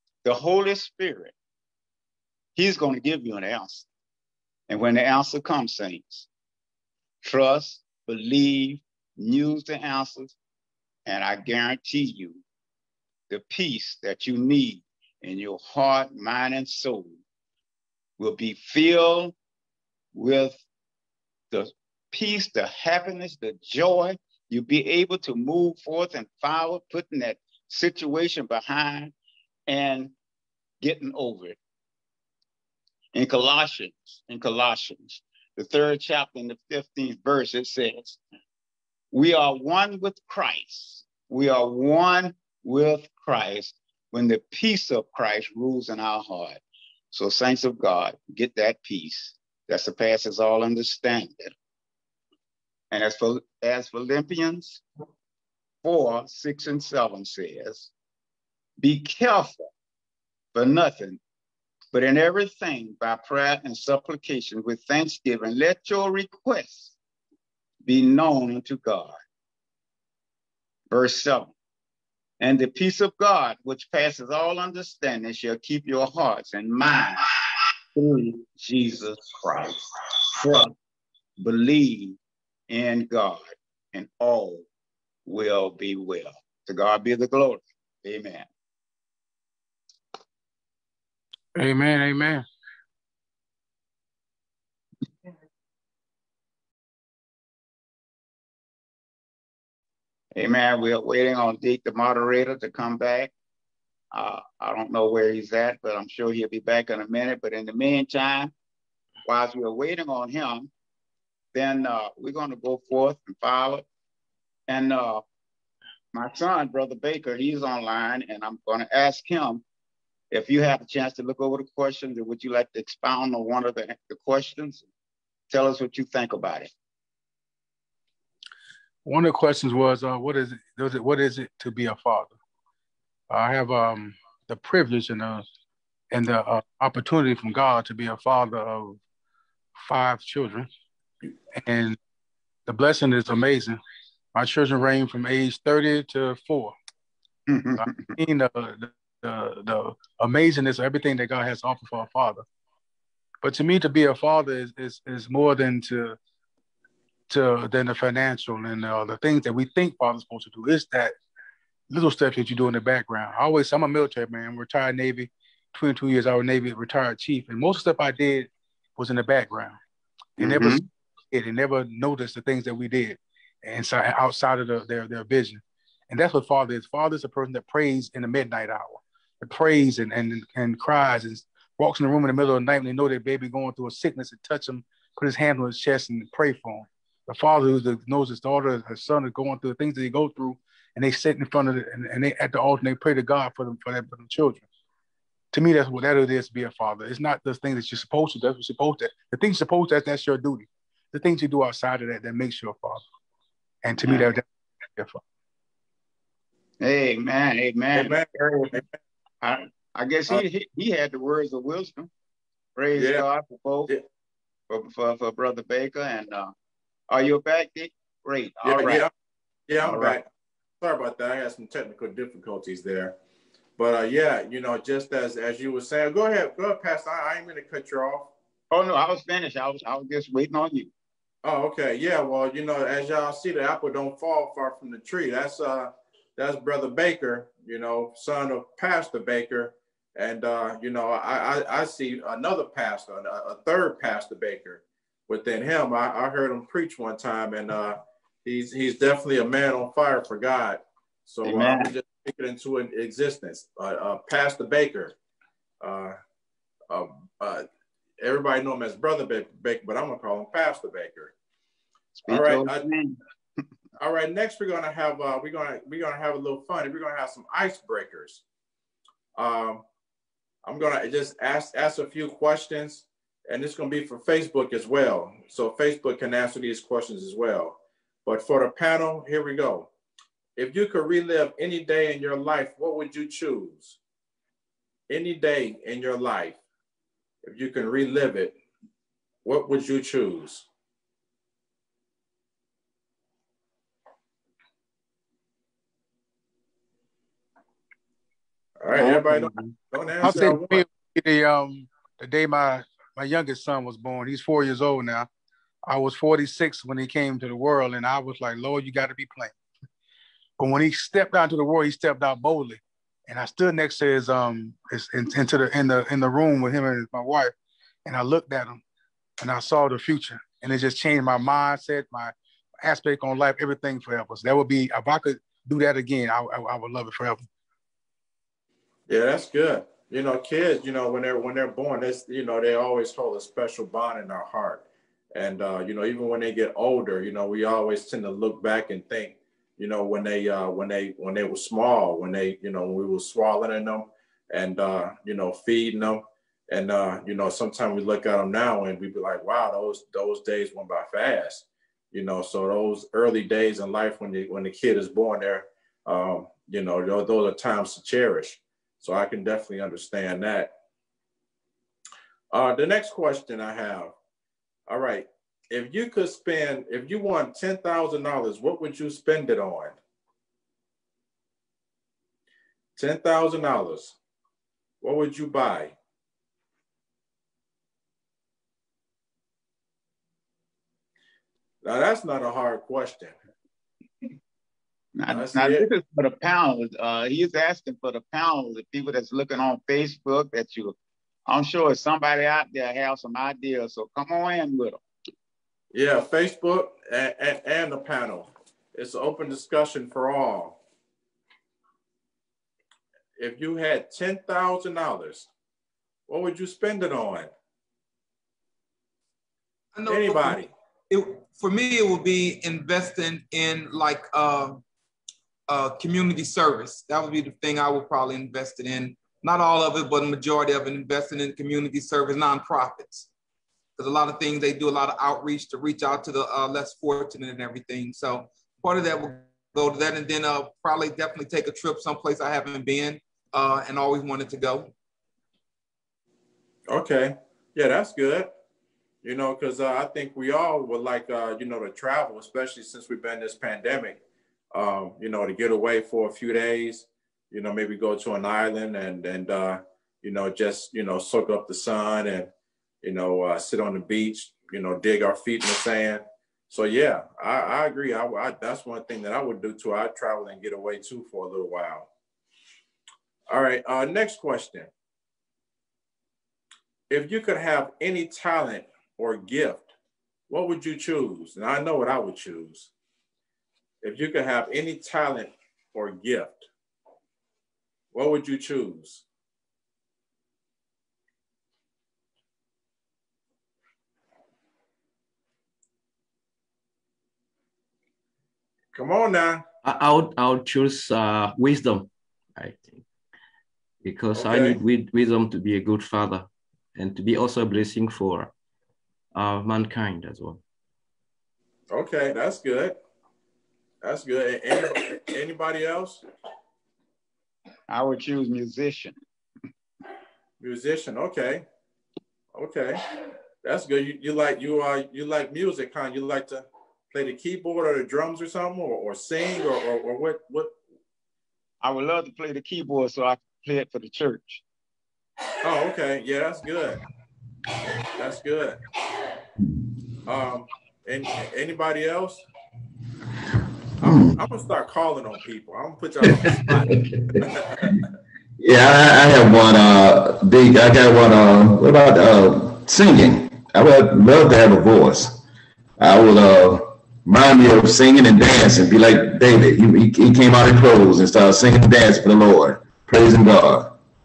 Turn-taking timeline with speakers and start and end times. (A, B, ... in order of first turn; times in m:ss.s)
0:00.2-0:01.3 A
0:02.6-0:03.8 A
0:04.7-0:06.3 A
0:07.2-0:10.3 A
0:11.0-0:12.4 A
0:13.3-0:17.2 A
0:18.2-0:19.3 A
0:20.1-0:20.6 A
0:21.5-0:29.1 A
0:29.7-0:30.1 A
0:30.8-0:31.6 A
0:33.1-0:38.2 A
0:39.1-0:46.6 A
0:47.1-0:51.5 A
0:52.9-0:54.8 A
0:55.8-0:57.9 A
0:58.8-0:59.7 A
1:00.5-1:01.2 A
1:01.9-1:06.9 A
1:07.8-1:09.2 A
1:10.9-1:11.5 A
1:12.4-1:17.4 A
1:17.9-1:20.7 A
1:21.4-1:22.2 A
1:22.7-1:24.6 A
1:25.2-1:28.5 A
1:31.5-1:32.4 B
1:40.3-1:43.3 A
1:44.1-1:48.5 A
1:49.2-1:50.7 A
1:51.5-1:53.8 A
1:54.7-1:55.2 A
1:56.1-1:59.6 A
2:00.3-2:04.8 A
2:05.5-2:06.7 A
2:09.0-2:12.3 B
2:13.3-2:15.4 B
2:16.1-2:19.0 B
2:19.8-2:20.7 B
2:21.5-2:22.0 B
2:22.7-2:23.8 B
2:24.3-2:26.7 B
2:27.5-2:28.2 A
2:27.8-2:32.4 B
2:33.4-2:36.2 B
2:37.3-2:41.1 B
2:41.9-2:49.8 B
2:50.4-3:14.6 B
2:50.4-2:50.8 A
3:15.5-3:23.0 B
3:23.8-3:25.2 B
3:26.8-3:28.8 A
3:27.9-3:28.8 C
3:29.4-3:32.1 A
3:32.8-3:33.9 A
3:33.0-3:33.2 C
3:34.7-3:36.5 A
3:37.1-3:39.1 A
3:38.6-3:39.1 C
3:39.7-3:40.2 C
3:39.8-3:40.2 A
3:40.8-3:43.1 C
3:43.8-3:48.3 C
3:48.7-3:50.9 A
3:51.4-4:15.1 C
4:11.4-4:11.9 A
4:15.8-4:16.1 C
4:16.9-4:17.6 C
4:18.2-4:21.3 C
4:22.2-4:23.2 A
4:22.3-4:22.8 C
4:24.0-4:28.4 C
4:29.4-4:29.8 C
4:30.6-4:39.9 C
4:40.6-4:44.0 C
4:45.1-4:46.6 C
4:47.4-4:48.5 C
4:49.4-4:50.6 C
4:58.8-5:00.8 C
4:58.9-4:59.7 A
5:00.2-5:05.3 B
5:05.9-5:09.5 B
5:10.6-5:17.5 B
5:18.0-5:18.8 B
5:19.4-5:27.4 B
5:29.1-6:00.7 C
6:02.5-6:04.1 C
6:04.9-6:09.9 C
6:13.0-6:14.2 C
6:15.0-6:15.9 C
6:21.8-6:23.3 C
6:25.2-6:31.0 A
6:25.3-6:25.9 C
6:31.5-6:35.0 A
6:35.9-6:40.8 C
6:43.4-6:45.5 C
6:46.3-6:47.5 C
6:49.9-6:54.8 D
6:50.0-6:50.7 C
6:55.7-7:03.3 D
7:04.0-7:14.9 D
7:16.9-7:18.5 C
7:19.2-7:24.2 C
7:24.7-7:32.5 C
7:33.0-7:42.1 C
7:43.5-7:44.9 C
7:47.1-7:49.9 C
7:50.5-7:52.9 C
7:54.0-7:56.7 C
7:58.1-7:59.2 C
8:08.9-8:09.6 C
8:09.8-8:13.0 E
8:14.0-8:18.5 E
8:14.3-8:14.8 C
8:19.4-8:20.6 E
8:21.9-8:23.0 C
8:24.0-8:26.2 C
8:27.9-8:29.2 A
8:30.6-8:31.6 C
8:32.5-8:33.0 C
8:33.6-8:40.7 C
8:41.8-8:44.6 A
8:45.6-8:47.0 C
8:48.2-8:48.8 C
8:50.2-8:52.4 C
8:54.0-8:58.0 C
8:54.0-8:54.4 F
8:56.2-8:58.0 F
8:58.6-9:05.4 F
9:06.0-9:13.9 F